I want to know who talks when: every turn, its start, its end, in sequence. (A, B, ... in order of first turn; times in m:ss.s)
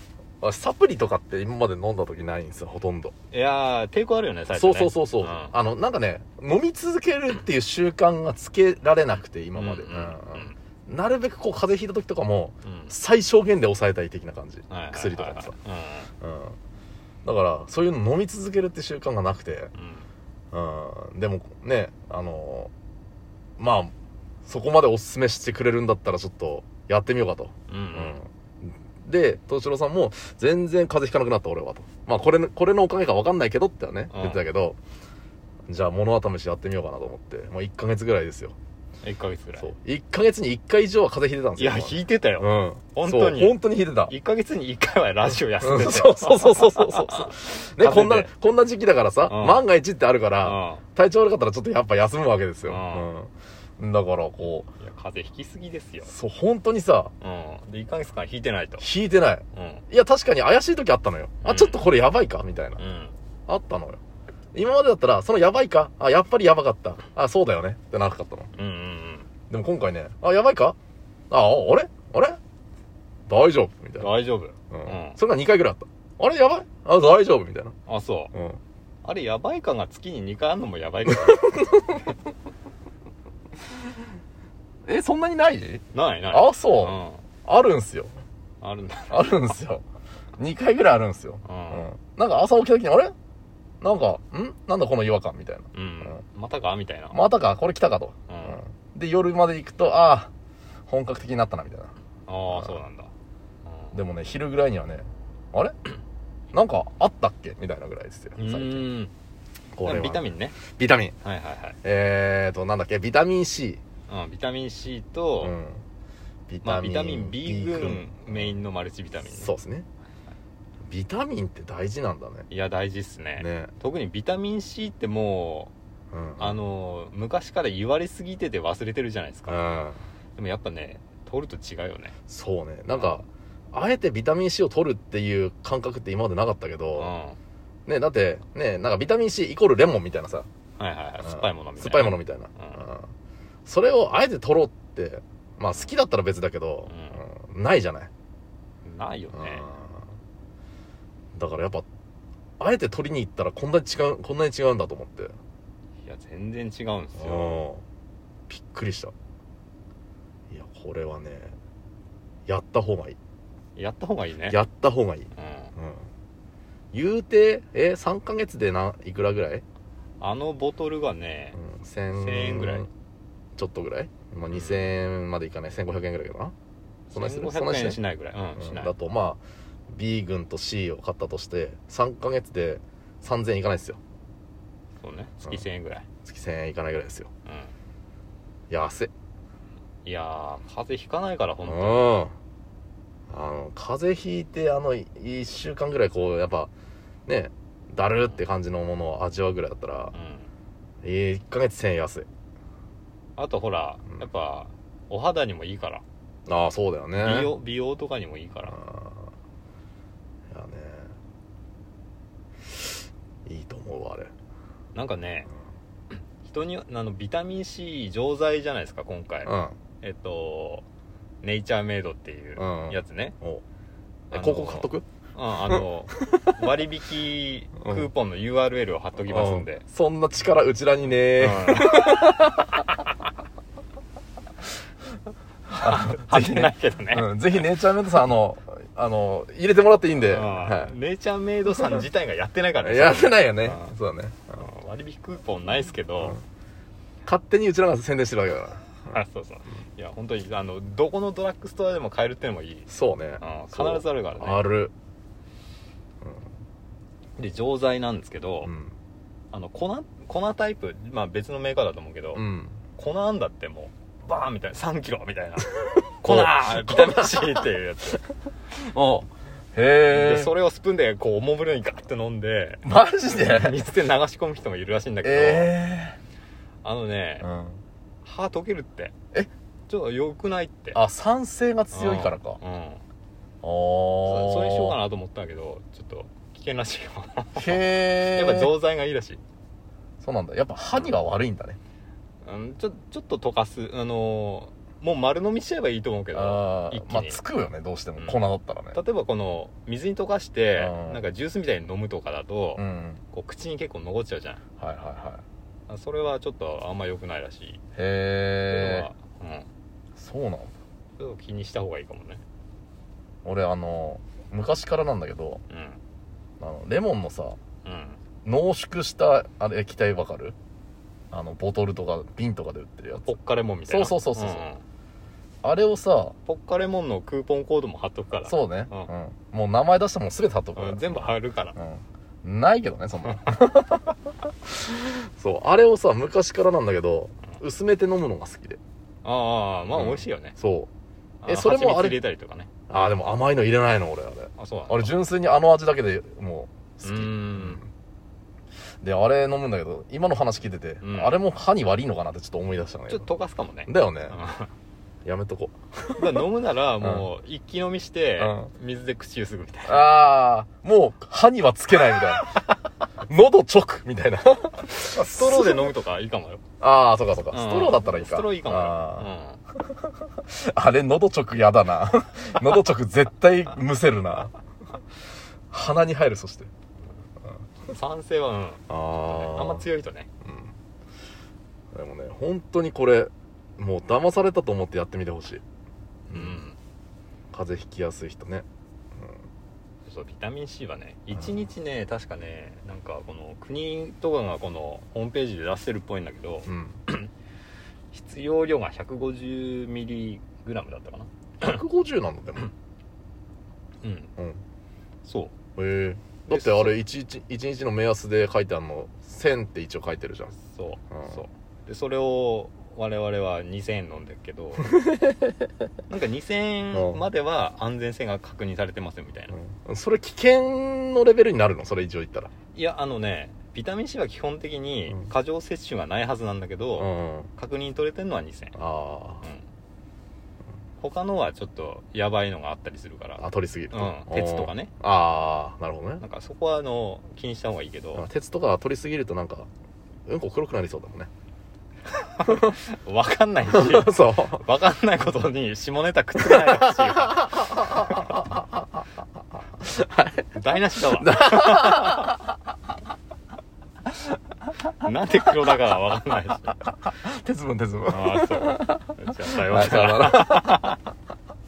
0:00.4-0:03.1 A
0:03.3-0:05.5 B
0:04.5-0:15.5 A
0:09.5-0:10.5 B
0:12.6-0:12.9 B
0:14.7-0:16.1 B
0:16.2-0:16.6 A
0:17.2-0:19.7 A
0:19.7-0:20.1 B
0:20.5-0:22.7 A
0:23.6-0:23.9 A
0:24.4-0:34.8 A
0:27.7-0:28.2 B
0:34.1-0:34.4 B
0:35.7-0:38.6 A
0:39.0-0:39.7 B
0:39.6-0:44.1 A
0:41.6-0:48.3 B
0:45.6-0:54.7 A
0:49.3-0:49.6 B
0:50.4-0:50.8 B
0:52.6-0:53.1 B
0:54.8-0:56.1 B
0:56.0-0:57.1 A
0:57.2-0:58.8 B
0:58.8-1:02.8 A
0:59.5-0:59.8 B
1:01.4-1:01.8 B
1:02.8-1:03.1 B
1:03.5-1:04.0 A
1:04.5-1:08.5 A
1:08.5-1:09.3 B
1:09.5-1:10.8 A
1:11.3-1:12.4 A
1:13.3-1:14.2 A
1:14.0-1:15.2 B
1:14.7-1:17.8 A
1:17.9-1:18.3 B
1:18.3-1:18.6 A
1:19.0-1:21.7 B
1:21.0-1:22.0 A
1:24.8-1:28.1 A
1:25.9-1:27.2 B
1:28.6-1:29.3 B
1:29.1-1:29.8 A
1:30.4-1:33.1 A
1:31.4-1:31.9 B
1:33.8-1:36.2 A
1:35.7-1:37.2 B
1:37.1-1:40.3 A
1:38.3-1:38.6 B
1:40.9-1:41.9 A
1:42.3-1:43.1 B
1:42.5-1:42.8 A
1:43.9-1:45.8 A
1:46.5-1:48.9 A
1:48.4-1:49.1 B
1:49.8-1:51.1 A
1:49.8-1:50.6 B
1:51.2-1:51.8 B
1:51.8-1:53.8 A
1:54.1-1:55.5 B
1:55.4-1:55.8 A
1:56.5-1:58.6 A
1:56.6-1:59.5 B
1:59.3-1:59.8 A
2:00.9-2:02.5 A
2:02.5-2:05.7 B
2:03.4-2:03.7 A
2:06.1-2:06.6 A
2:06.4-2:09.6 B
2:09.5-2:10.0 A
2:10.4-2:12.1 B
2:12.3-2:17.1 A
2:17.0-2:17.4 B
2:17.8-2:20.5 A
2:20.8-2:22.8 B
2:21.2-2:23.1 A
2:23.6-2:28.1 A
2:26.9-2:27.2 B
2:28.8-2:29.6 B
2:29.3-2:30.0 A
2:31.3-2:31.8 A
2:32.6-2:35.3 A
2:36.0-2:37.6 B
2:37.2-2:37.8 A
2:38.5-2:39.1 A
2:40.5-2:41.5 A
2:42.5-2:43.2 A
2:43.8-2:44.6 B
2:44.5-2:46.0 A
2:45.4-2:45.7 B
2:46.9-2:49.6 A
2:50.2-2:51.6 B
2:51.5-2:52.9 A
2:52.1-2:52.9 B
2:53.6-2:56.5 A
2:54.5-2:54.8 B
2:57.1-2:58.0 A
2:57.1-2:58.9 B
2:58.6-3:04.0 A
3:05.0-3:06.0 B
3:06.2-3:07.3 A
3:07.4-3:07.7 B
3:08.7-3:09.1 A
3:10.0-3:12.2 B
3:11.6-3:12.3 A
3:13.3-3:16.7 A
3:17.2-3:20.1 A
3:20.1-3:20.5 B
3:21.0-3:22.3 A
3:23.4-3:26.0 B
3:26.5-3:27.5 A
3:27.2-3:28.8 B
3:28.7-3:29.3 A
3:30.5-3:31.1 A
3:33.4-3:34.3 A
3:34.9-3:35.5 B
3:36.4-3:40.8 B
3:39.4-3:39.8 A
3:41.4-3:43.4 B
3:42.6-3:43.6 A
3:44.3-3:45.0 A
3:44.3-3:49.8 B
3:45.6-3:46.5 A
3:47.8-3:48.1 A
3:49.2-3:52.8 A
3:51.4-3:52.6 B
3:55.7-4:00.9 A
3:55.8-3:57.6 B
4:00.2-4:03.9 B
4:02.8-4:04.6 A
4:04.5-4:06.4 B
4:07.2-4:09.1 A
4:09.0-4:12.9 B
4:12.9-4:14.9 A
4:13.4-4:14.6 B
4:17.4-4:18.7 B
4:18.6-4:18.9 A
4:19.5-4:22.4 B
4:22.3-4:22.8 A
4:23.0-4:28.2 B
4:25.8-4:27.7 A
4:28.7-4:30.5 A
4:30.1-4:35.7 B
4:32.8-4:33.8 A
4:35.2-4:36.2 A
4:36.8-4:37.5 B
4:37.4-4:37.8 A
4:38.2-4:39.1 B
4:39.9-4:41.0 B
4:40.9-4:42.6 A
4:41.9-4:43.0 B
4:43.6-4:45.0 A
4:44.2-4:49.4 B
4:47.6-4:48.7 A
4:50.2-4:51.8 A
4:52.4-4:57.4 B
4:56.3-4:59.0 A
4:58.9-5:04.6 B
5:00.8-5:01.2 A
5:02.8-5:03.2 A
5:04.8-5:05.4 A
5:05.9-5:07.8 B
5:08.0-5:09.1 A
5:08.7-5:09.7 B
5:10.2-5:10.7 A
5:11.2-5:12.4 B
5:13.4-5:15.6 A
5:15.7-5:16.0 B
5:16.6-5:17.6 A
5:17.8-5:18.2 B
5:18.4-5:20.6 A
5:21.3-5:23.3 A
5:23.2-5:24.8 B
5:23.9-5:24.7 A
5:25.6-5:26.3 A
5:26.4-5:29.1 B
5:28.4-5:34.1 A
5:30.8-5:31.8 B
5:34.7-5:38.8 A
5:39.2-5:40.5 B
5:39.9-5:40.9 A
5:41.4-5:42.7 B
5:41.4-5:42.2 A
5:42.9-5:47.9 A
5:44.6-5:45.1 B
5:47.0-5:47.8 B
5:49.0-5:53.3 A
5:51.0-5:51.4 B
5:53.1-5:54.7 B
5:53.9-5:54.4 A
5:55.2-5:56.4 A
5:56.2-6:00.1 B
5:57.0-5:57.3 A
5:58.4-5:58.7 A
5:59.8-6:02.6 A
6:02.1-6:02.7 B
6:03.3-6:05.9 A
6:05.1-6:06.6 B
6:06.8-6:09.3 A
6:07.5-6:09.6 B
6:10.4-6:14.5 A
6:15.7-6:16.7 A
6:17.8-6:20.3 B
6:18.9-6:19.8 A
6:20.4-6:20.7 A
6:21.9-6:25.6 A
6:26.3-6:26.6 A
6:26.3-6:26.8 B
6:27.5-6:29.4 A
6:30.0-6:37.3 B
6:36.6-6:37.0 A
6:38.1-6:41.3 B
6:41.6-6:42.7 A
6:44.0-6:44.3 B
6:45.2-6:45.5 B
6:45.8-6:50.5 A
6:46.5-6:47.0 B
6:50.5-6:54.9 B
6:51.1-6:51.4 A
6:54.8-6:55.6 A
6:56.1-6:59.6 B
6:56.9-6:57.2 A
6:59.5-7:02.5 A
7:02.7-7:08.8 B
7:07.0-7:07.5 A
7:08.7-7:09.4 A
7:11.0-7:14.9 B
7:13.4-7:16.2 A
7:16.2-7:18.3 B
7:18.1-7:19.7 A
7:20.2-7:21.3 A
7:22.2-7:28.3 B
7:22.4-7:22.8 A
7:23.6-7:24.6 A
7:26.4-7:28.6 A
7:29.8-7:32.3 A
7:30.5-7:32.3 B
7:35.0-7:36.8 B
7:37.0-7:41.0 A
7:38.1-7:41.0 B